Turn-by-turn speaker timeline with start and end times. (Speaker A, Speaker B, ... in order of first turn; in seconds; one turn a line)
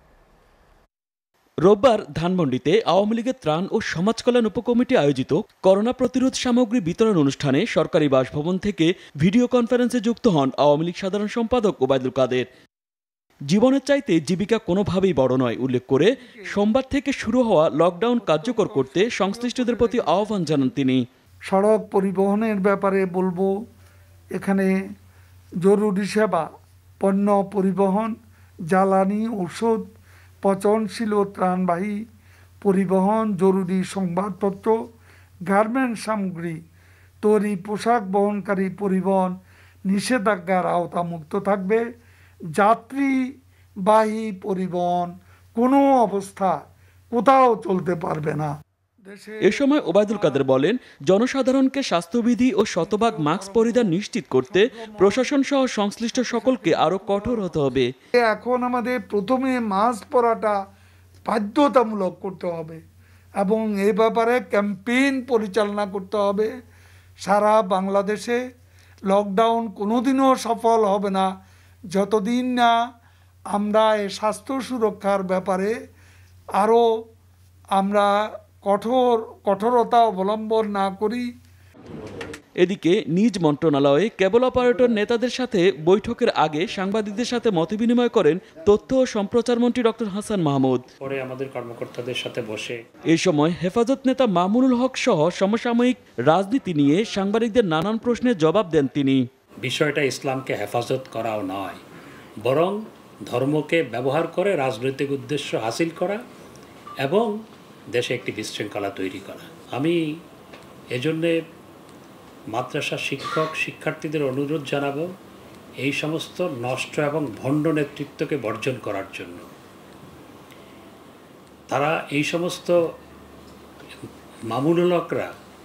Speaker A: 1.7-12.5
Speaker A: 13.5-21.0
Speaker B: 16.2-16.7
Speaker B: 18.2-20.7
Speaker B: 21.5-23.5
Speaker B: 24.4-24.7
Speaker B: 25.6-26.5
Speaker B: 27.0-28.1
Speaker B: 28.7-29.8
Speaker B: 30.4-32.0
Speaker B: 32.6-34.8
Speaker B: 35.5-36.6
Speaker B: 37.2-39.3
Speaker B: 39.9-41.8
Speaker B: 42.5-43.3
Speaker B: 43.9-46.6
Speaker B: 47.1-48.5
Speaker B: 49.0-50.5
Speaker A: 49.4-57.9
Speaker B: 52.8-55.3
Speaker B: 56.1-57.6
Speaker B: 58.2-60.6
Speaker B: 61.3-62.8
Speaker B: 63.4-66.5
Speaker B: 67.2-68.4
Speaker B: 69.1-71.3
Speaker B: 71.9-72.7
Speaker B: 73.5-75.7
Speaker B: 76.6-76.8
Speaker B: 77.8-78.1
Speaker B: 78.6-81.2
Speaker A: 82.6-90.8
Speaker C: 91.0-92.8
Speaker A: 93.1-99.2
Speaker C: 99.6-101.8
Speaker C: 102.4-106.2
Speaker C: 107.0-107.3
Speaker C: 107.9-110.0
Speaker C: 110.9-111.3
Speaker C: 112.5-115.1
Speaker C: 115.8-119.5
Speaker C: 121.7-122.8
Speaker C: 124.5-125.3